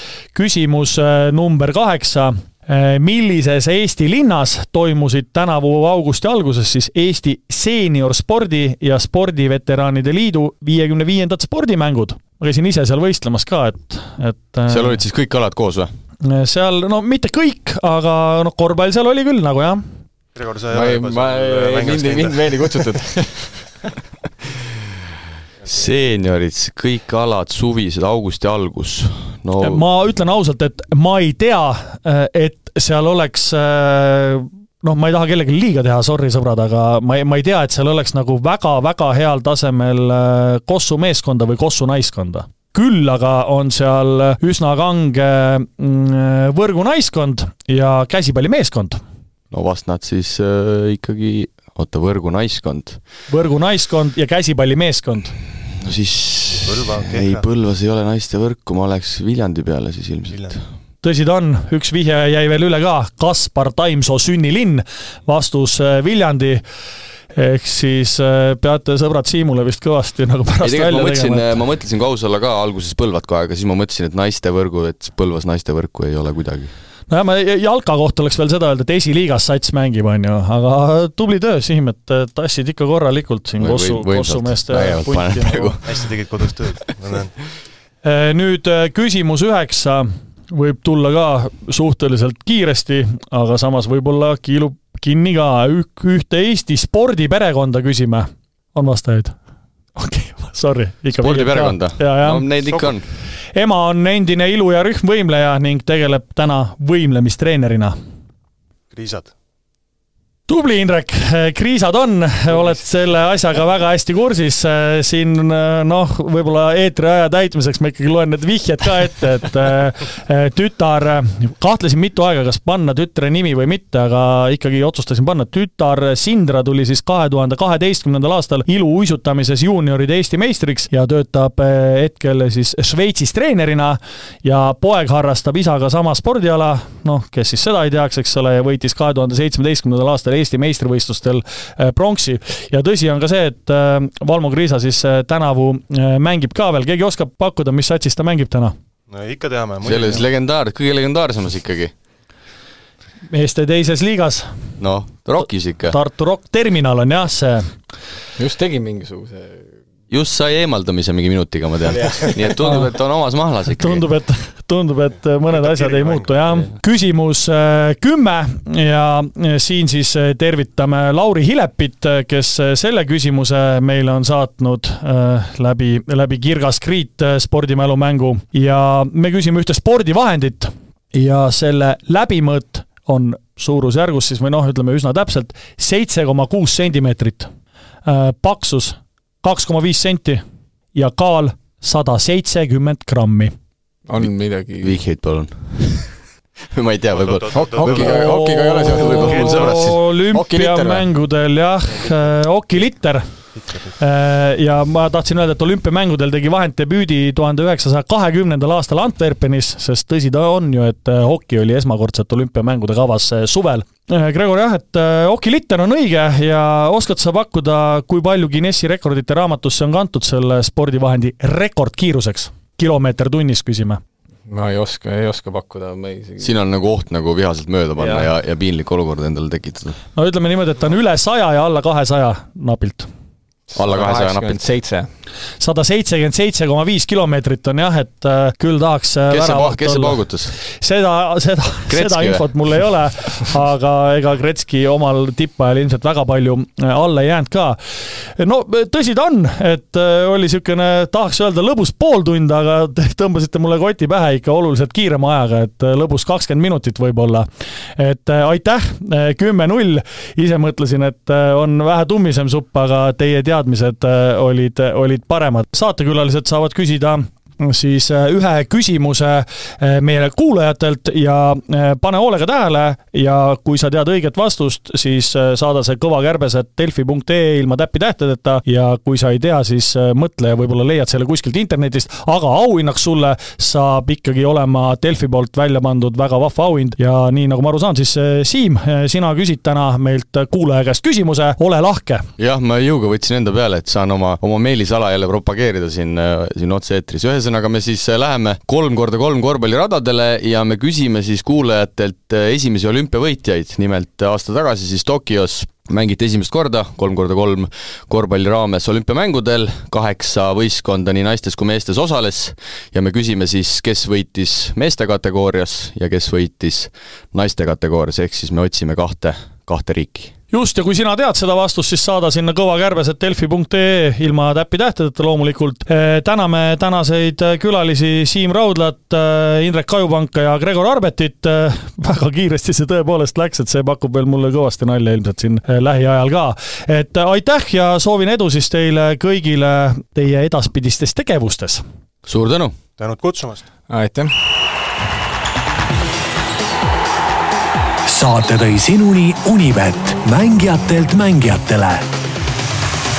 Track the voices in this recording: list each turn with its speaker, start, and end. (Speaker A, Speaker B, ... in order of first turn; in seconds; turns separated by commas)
Speaker A: 0.3-15.0, Speaker B: 14.7-15.9, Speaker A: 16.2-19.8, Speaker C: 20.4-22.8, Speaker D: 20.7-23.6, Speaker C: 25.6-25.9, Speaker B: 25.7-29.8, Speaker A: 29.6-49.0, Speaker B: 49.5-53.0, Speaker A: 53.3-55.4, Speaker B: 55.8-60.6, Speaker C: 56.5-57.5, Speaker C: 60.3-60.6, Speaker A: 61.0-66.6, Speaker A: 67.3-71.6, Speaker B: 70.6-76.7, Speaker A: 77.1-85.8, Speaker B: 83.6-86.1, Speaker C: 85.8-87.3, Speaker A: 88.0-99.3, Speaker A: 100.0-102.5, Speaker B: 101.2-103.1, Speaker C: 102.7-102.9, Speaker A: 103.5-108.0, Speaker C: 108.9-109.3, Speaker A: 110.5-148.8, Speaker C: 149.1-150.3, Speaker B: 149.8-151.9, Speaker A: 153.3-154.5, Speaker B: 154.8-156.0, Speaker A: 155.4-157.8, Speaker D: 158.4-159.8, Speaker B: 160.1-164.0, Speaker D: 161.9-162.5, Speaker A: 163.8-187.5, Speaker C: 165.5-166.3, Speaker A: 188.1-190.4, Speaker A: 190.9-193.5, Speaker D: 194.1-195.0, Speaker B: 194.8-196.2, Speaker B: 196.7-198.3, Speaker C: 197.1-198.4, Speaker D: 197.5-201.1, Speaker A: 197.9-224.0, Speaker B: 198.8-199.7, Speaker C: 199.2-199.8, Speaker C: 203.6-203.9, Speaker D: 224.5-226.5, Speaker B: 226.4-230.0, Speaker D: 228.0-228.3, Speaker A: 230.2-233.1, Speaker D: 233.7-235.1, Speaker B: 233.7-234.6, Speaker A: 235.6-292.3, Speaker B: 239.3-240.6, Speaker B: 241.9-242.5, Speaker B: 292.4-320.3, Speaker A: 320.5-341.8, Speaker B: 342.2-342.8, Speaker C: 343.0-343.7, Speaker D: 343.9-344.3, Speaker E: 348.1-352.1